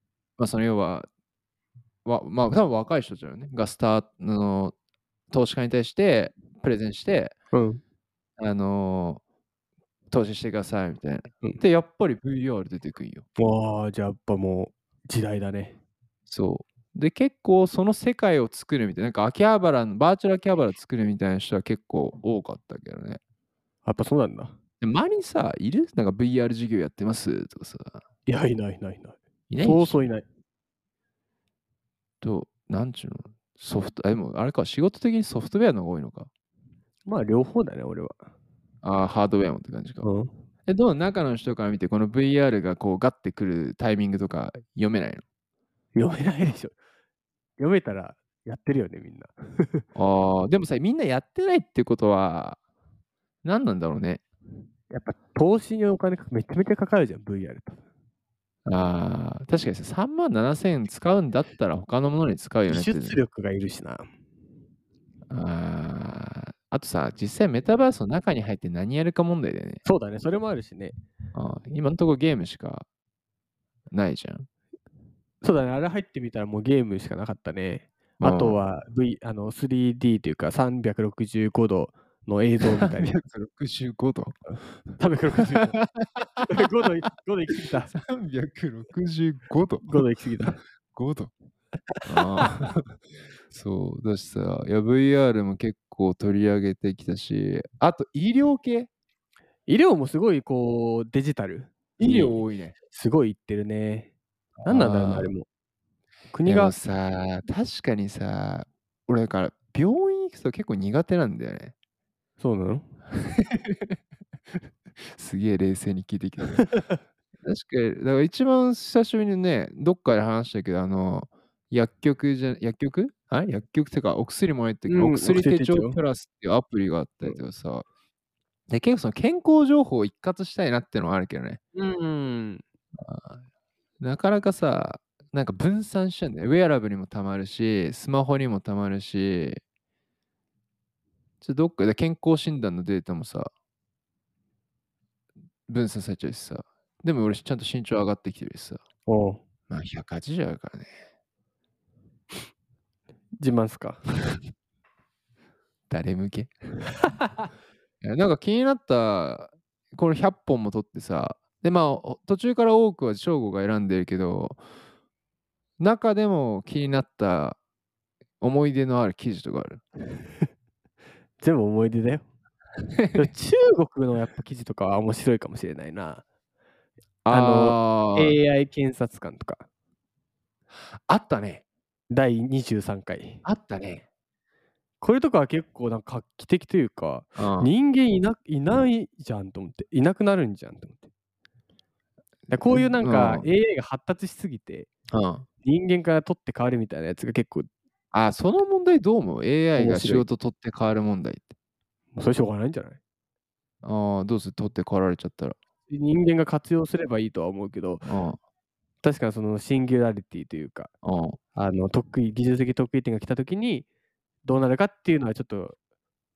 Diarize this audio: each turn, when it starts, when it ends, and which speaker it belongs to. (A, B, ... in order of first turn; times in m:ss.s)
0:00.4-0:01.1 A
0:02.0-0:04.7 A
0:05.3-0:07.3 A
0:07.5-0:07.8 B
0:08.4-0:09.2 A
0:10.1-0:13.3 A
0:13.4-0:15.8 B
0:16.3-0:23.2 A
0:23.8-0:24.6 B
0:24.8-0:28.0 A
0:28.3-0:30.2 B
0:29.5-0:30.0 A
0:32.2-0:36.3 A
0:37.0-0:38.2 B
0:38.8-0:40.1 A
0:40.0-0:40.3 B
0:40.7-0:45.2 A
0:45.9-0:46.7 B
0:47.6-0:49.8 B
0:49.9-0:52.6 A
0:53.4-0:54.2 A
0:54.9-0:57.8 B
0:58.6-1:03.2 A
1:02.7-1:04.1 B
1:05.3-1:09.8 A
1:09.8-1:11.0 B
1:11.3-1:12.8 A
1:13.9-1:14.5 A
1:15.4-1:23.1 B
1:18.2-1:18.6 A
1:22.6-1:24.4 A
1:25.0-1:25.8 B
1:25.4-1:26.6 A
1:26.5-1:27.9 B
1:27.9-1:30.0 A
1:29.8-1:30.6 B
1:30.9-1:31.3 A
1:32.0-1:32.8 A
1:33.5-1:38.9 A
1:39.7-1:44.1 B
1:42.0-1:42.8 A
1:44.6-1:45.3 A
1:44.6-1:45.5 B
1:46.3-1:46.7 B
1:46.4-1:51.7 A
1:52.4-1:52.9 B
1:53.2-1:53.9 A
1:55.1-1:56.7 A
1:56.7-1:57.0 B
1:57.4-2:07.8 A
2:04.9-2:06.0 B
2:08.7-2:11.6 A
2:11.7-2:12.6 B
2:13.0-2:13.4 A
2:14.0-2:19.6 A
2:21.4-2:23.5 A
2:25.7-2:28.8 A
2:29.0-2:29.4 B
2:29.7-2:30.9 A
2:33.4-2:34.0 B
2:35.9-2:36.5 A
2:38.0-2:44.6 A
2:45.8-2:47.6 A
2:48.4-2:49.8 A
2:51.4-2:52.2 B
2:53.0-2:53.3 A
2:53.1-2:56.2 B
2:57.2-2:58.4 A
2:57.3-2:59.6 B
3:01.1-3:01.6 A
3:02.1-3:03.4 B
3:03.4-3:04.0 A
3:05.0-3:11.1 B
3:07.4-3:07.7 A
3:12.5-3:14.9 B
3:12.6-3:13.4 A
3:15.1-3:15.4 A
3:15.6-3:17.7 B
3:18.1-3:21.5 A
3:19.8-3:20.2 B
3:22.1-3:23.0 B
3:23.8-3:25.6 A
3:25.9-3:28.0 B
3:28.0-3:28.4 A
3:29.0-3:30.9 B
3:31.0-3:31.4 A
3:31.5-3:33.8 B
3:34.4-3:35.8 B